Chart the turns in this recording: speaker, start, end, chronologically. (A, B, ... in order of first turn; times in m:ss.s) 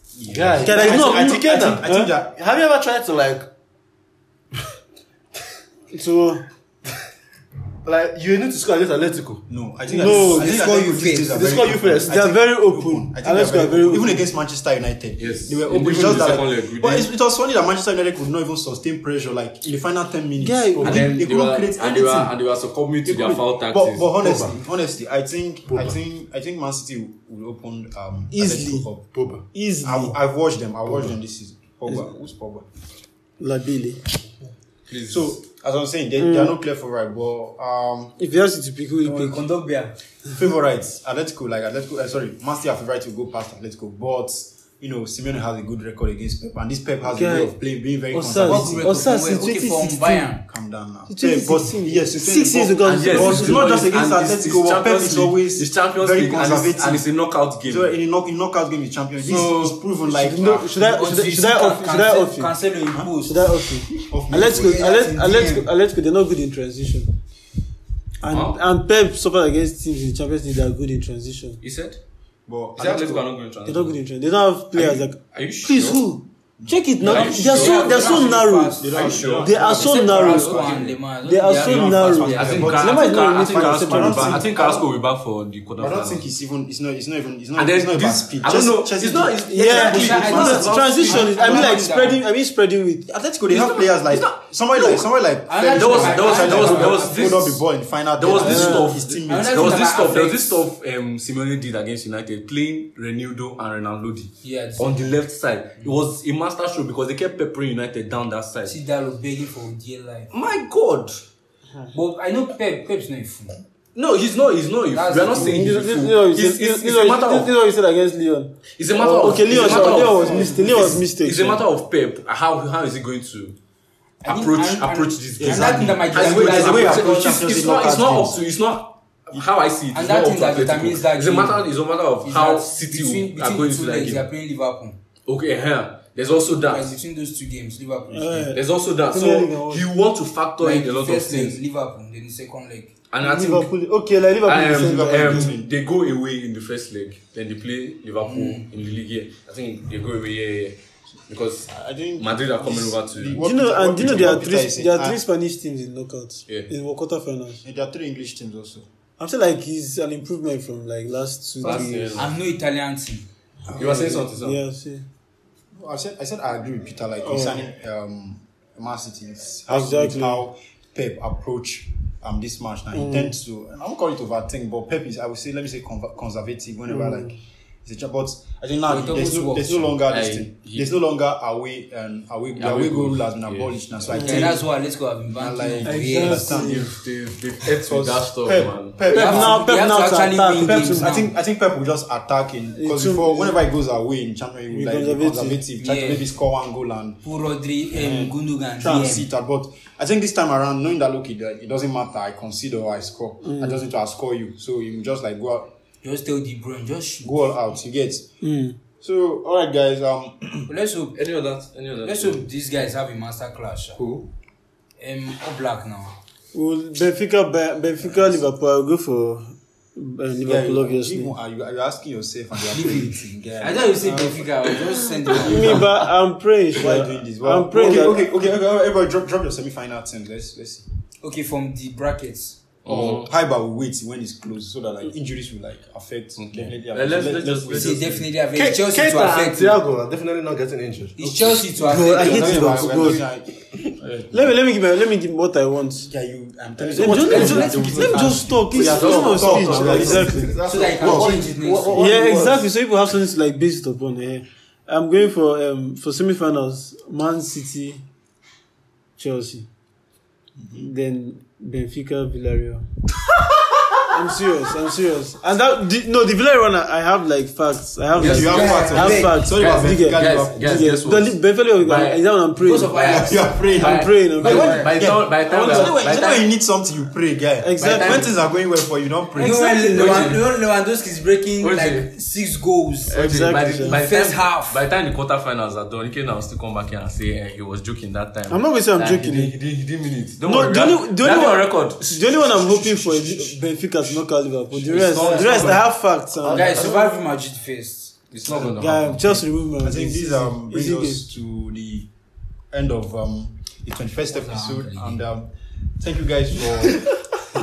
0:00.2-0:02.3 A
0:00.2-0:03.5 B
0:00.6-0:02.1 C
0:05.9-0:06.4 C
0:07.8-0:09.4 B
0:09.5-0:22.3 A
0:09.9-0:10.5 C
0:10.0-0:11.4 D
0:11.3-0:12.1 B
0:12.0-0:14.2 C
0:15.2-0:17.1 E
0:20.4-0:21.1 C
0:20.8-0:24.1 E
0:23.0-0:29.1 A
0:24.2-0:24.5 B
0:25.7-0:26.0 B
0:28.3-0:28.9 C
0:29.1-0:29.4 B
0:29.5-0:30.2 C
0:29.8-0:32.6 A
0:31.9-0:32.1 C
0:33.4-0:34.0 C
0:34.9-0:35.3 E
0:35.1-0:38.2 A
0:36.2-0:36.6 C
0:38.2-0:39.4 C
0:39.0-0:39.9 D
0:40.3-0:48.9 A
0:47.0-0:47.5 C
0:48.1-0:50.3 C
0:48.4-0:50.4 D
0:50.4-0:57.1 A
0:51.1-0:53.7 C
0:52.8-0:57.9 E
0:57.6-1:01.0 A
1:00.0-1:02.5 C
1:00.8-1:03.4 D
1:03.2-1:07.1 C
1:04.0-1:04.9 A
1:04.4-1:05.7 D
1:08.2-1:11.6 C
1:08.2-1:08.6 E
1:11.6-1:12.0 E
1:12.5-1:13.2 A
1:12.8-1:14.0 E
1:13.6-1:24.4 C
1:14.7-1:16.0 E
1:17.0-1:18.2 E
1:17.0-1:22.8 D
1:18.8-1:19.9 A
1:18.9-1:21.0 E
1:21.6-1:24.9 A
1:21.7-1:26.3 E
1:25.8-1:29.5 A
1:27.6-1:31.7 E
1:29.5-1:33.0 C
1:29.6-1:32.2 D
1:33.1-1:39.8 A
1:33.5-1:35.1 E
1:35.5-1:37.5 D
1:35.7-1:37.6 E
1:38.2-1:48.8 E
1:38.4-1:38.9 C
1:39.3-1:40.6 D
1:44.4-1:45.1 D
1:48.6-1:50.3 D
1:50.3-1:51.2 E
1:51.9-1:53.6 D
1:53.9-1:57.5 E
1:54.9-1:55.6 D
1:55.4-2:01.6 C
1:58.8-2:03.6 E
1:59.5-2:00.7 D
2:04.2-2:07.1 D
2:04.2-2:14.3 E
2:05.4-2:08.4 A
2:09.9-2:11.7 D
2:12.2-2:15.0 D
2:15.2-2:17.0 E
2:16.6-2:18.5 D
2:18.1-2:19.9 C
2:18.5-2:21.6 E
2:20.6-2:22.9 D
2:23.1-2:23.7 E
2:23.2-2:25.5 C
2:24.4-2:33.4 E
2:24.6-2:25.7 A
2:28.2-2:28.7 D
2:31.7-2:35.2 A
2:33.4-2:37.6 C
2:37.6-2:38.9 A
2:39.2-2:42.3 C
2:41.6-2:42.4 E
2:42.2-2:43.3 D
2:43.7-2:44.2 A
2:43.7-2:44.6 E
2:43.8-2:45.0 C
2:45.8-3:04.6 A
2:47.2-2:47.6 C
2:49.7-2:50.4 C
2:52.9-2:53.3 C
2:56.9-2:57.4 C
2:58.9-2:59.9 D
3:00.0-3:00.9 E
3:02.6-3:04.2 E
3:04.1-3:04.6 C
3:04.1-3:06.5 D
3:05.3-3:06.9 A
3:05.8-3:06.9 C
3:06.4-3:09.0 E
3:07.8-3:09.6 A
3:09.1-3:11.3 D
3:09.1-3:11.2 C
3:10.6-3:17.2 A
3:12.8-3:13.6 C
3:14.7-3:15.6 C
3:15.8-3:16.2 D
3:17.2-3:19.3 D
3:17.9-3:25.7 A
3:23.4-3:23.8 C
3:26.0-3:27.4 D
3:27.2-3:28.3 A
3:28.4-3:28.8 C
3:29.0-3:30.7 A
3:30.7-3:31.2 D
3:31.1-3:32.4 E
3:32.0-3:34.0 D
3:35.0-3:36.2 D
3:36.5-3:41.3 C
3:40.4-3:44.5 A
3:42.7-3:45.8 D
3:45.4-3:48.2 C
3:46.7-3:50.8 A
3:51.2-3:52.6 D
3:52.8-3:53.3 E
3:52.8-3:58.2 A
3:56.4-3:58.3 E
3:57.7-3:59.8 D
3:58.5-4:01.2 B
4:01.2-4:03.1 D
4:01.8-4:03.2 C
4:01.9-4:03.6 A
4:04.0-4:04.4 E
4:04.3-4:06.1 C
4:06.0-4:10.6 A
4:06.8-4:10.5 C
4:07.0-4:08.4 D
4:07.2-4:10.2 E
4:09.5-4:12.7 B
4:10.6-4:12.1 D
4:11.9-4:18.0 C
4:19.2-4:19.7 C
4:20.7-4:22.8 C
4:24.0-4:34.9 C
4:28.2-4:30.6 A
4:28.2-4:28.7 E
4:28.2-4:29.5 D
4:29.5-4:32.2 E
4:32.6-4:33.7 D
4:33.0-4:39.6 A
4:33.7-4:36.4 E
4:34.4-4:35.0 D
4:35.6-4:36.4 D
4:37.6-4:38.3 C
4:37.8-4:38.3 E
4:39.4-4:40.3 C
4:39.4-4:43.2 D
4:39.8-4:40.4 E
4:41.6-4:42.1 E
4:43.1-4:52.2 E
4:43.1-4:44.0 C
4:43.9-4:44.8 D
4:48.5-4:49.5 C
4:50.4-4:56.8 C
4:52.4-4:53.5 A
4:54.8-4:55.8 E
4:55.0-4:55.8 B
4:56.4-4:57.2 B
4:56.5-4:58.6 D
4:58.3-4:59.4 E
4:58.7-5:01.2 C
4:59.8-5:02.1 A
5:02.7-5:07.2 A
5:04.3-5:05.2 D